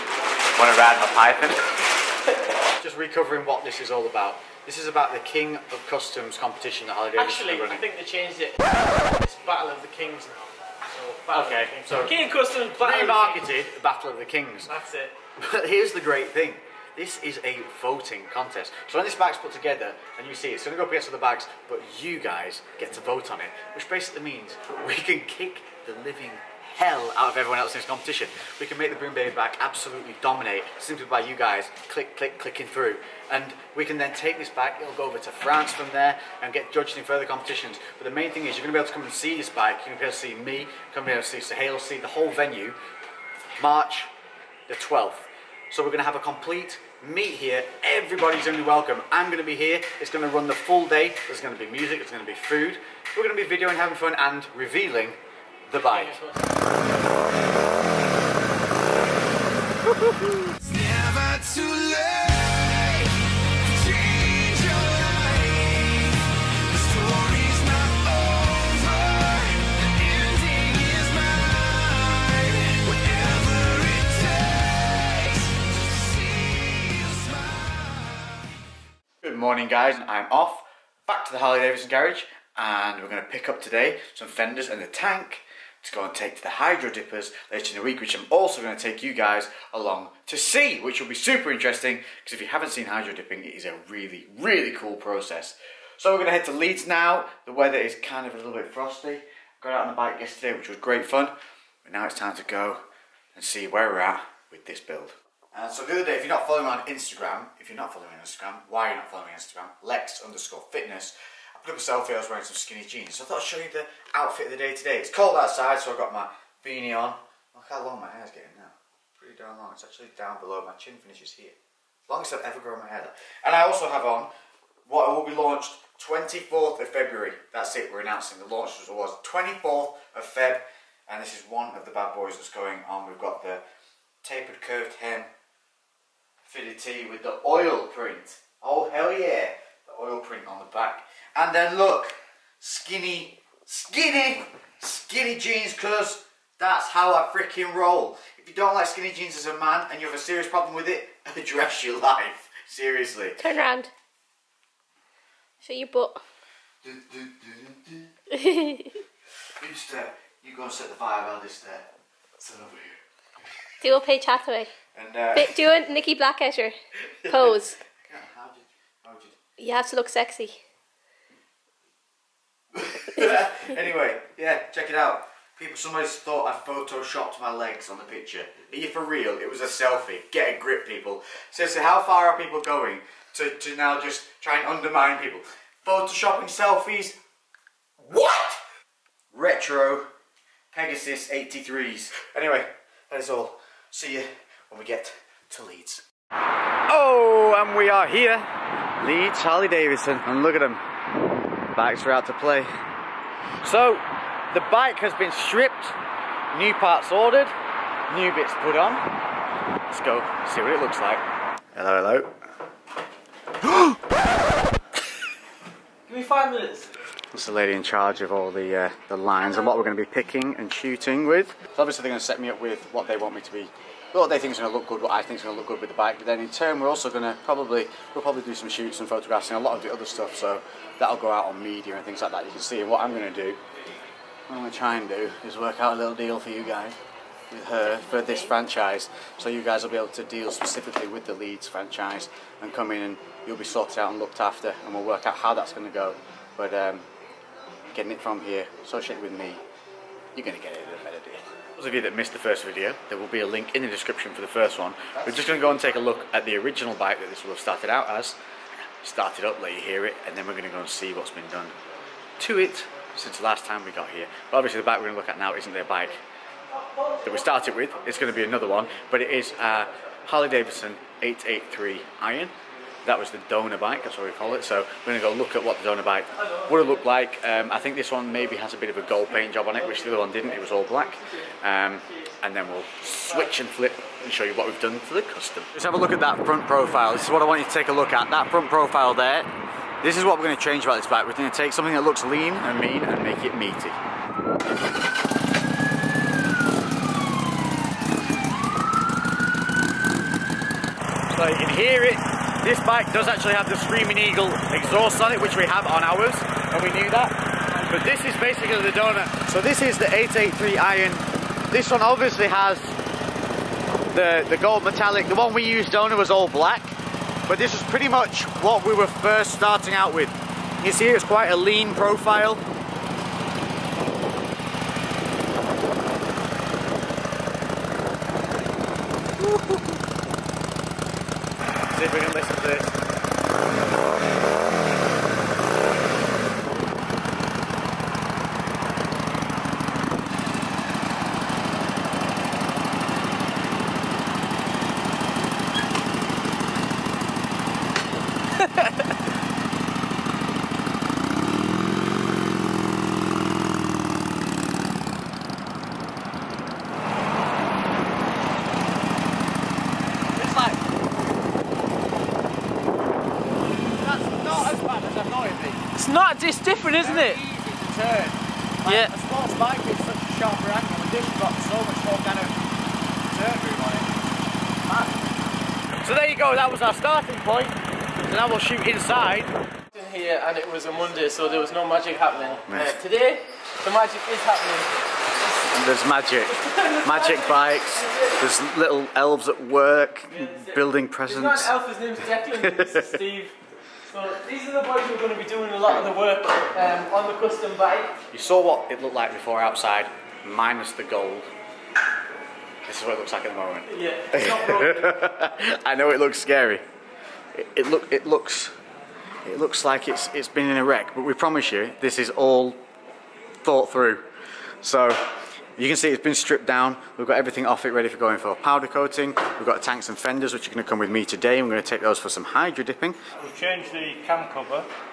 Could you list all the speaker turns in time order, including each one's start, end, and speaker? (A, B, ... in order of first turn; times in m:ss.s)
0:00.5-0:01.8 A
0:02.8-0:07.8 A
0:07.2-0:13.4 B
0:11.3-0:12.1 A
0:12.8-0:14.7 A
0:14.7-0:15.1 B
0:15.4-0:42.8 A
0:43.6-0:44.1 A
0:44.7-0:55.2 A
0:55.7-0:56.2 A
0:55.8-0:56.5 B
1:00.6-1:03.1 C
1:03.7-1:18.4 C
1:19.2-1:41.3 A
1:41.8-1:42.8 A
1:43.4-2:01.6 A
2:02.1-2:04.3 A
2:04.9-2:13.6 A
2:14.2-2:15.3 A
2:16.4-2:33.4 A
2:33.4-2:33.9 D
2:35.6-2:36.2 D
2:36.8-2:38.1 A
2:38.3-2:39.0 D
2:39.6-2:43.0 A
2:43.8-2:44.7 D
2:44.9-2:45.8 A
2:45.3-2:46.8 D
2:47.2-2:47.5 A
2:47.2-2:47.8 D
2:48.0-2:49.4 A
2:49.6-2:50.6 D
2:52.8-3:07.2 A
3:08.0-3:08.6 A
3:09.3-3:10.1 A
3:10.7-3:16.0 A
3:16.9-3:18.4 A
3:19.0-3:20.8 A
3:21.8-3:22.7 A
3:23.6-3:26.0 A
3:26.5-3:27.5 A
3:28.1-3:29.0 A
3:29.9-3:32.3 A
3:36.1-3:36.9 B
3:37.3-3:53.6 A
3:54.5-3:57.0 A
3:57.5-4:07.1 A
4:07.9-4:09.6 A
4:10.4-4:18.4 A
4:19.0-4:21.7 A
4:22.4-4:26.2 A
4:26.7-4:29.1 B
4:27.2-4:49.5 A
4:36.4-4:36.9 B
4:40.2-4:41.5 B
4:50.0-4:54.0 A
5:01.3-5:12.9 A
5:14.1-5:17.0 A
5:17.5-5:22.6 A
5:31.9-5:33.0 A
6:00.3-6:00.8 A
6:04.0-6:05.9 A
6:05.9-6:07.4 B
6:07.0-6:12.6 A
6:08.9-6:09.1 B
6:13.3-6:14.1 A
6:14.9-6:15.3 A
6:16.0-6:19.5 A
6:19.9-6:25.7 B
6:22.7-6:23.0 A
6:25.7-6:31.8 A
6:26.5-6:28.4 B
6:30.3-6:33.6 B
6:32.6-6:33.1 A
6:34.1-6:38.1 B
6:38.3-6:41.5 A
6:42.8-6:46.8 A
6:43.9-6:45.1 B
6:47.6-6:48.7 A
6:49.4-6:52.8 A
6:53.6-6:54.2 A
6:54.8-6:55.2 A
6:55.8-7:03.2 A
7:03.4-7:04.9 C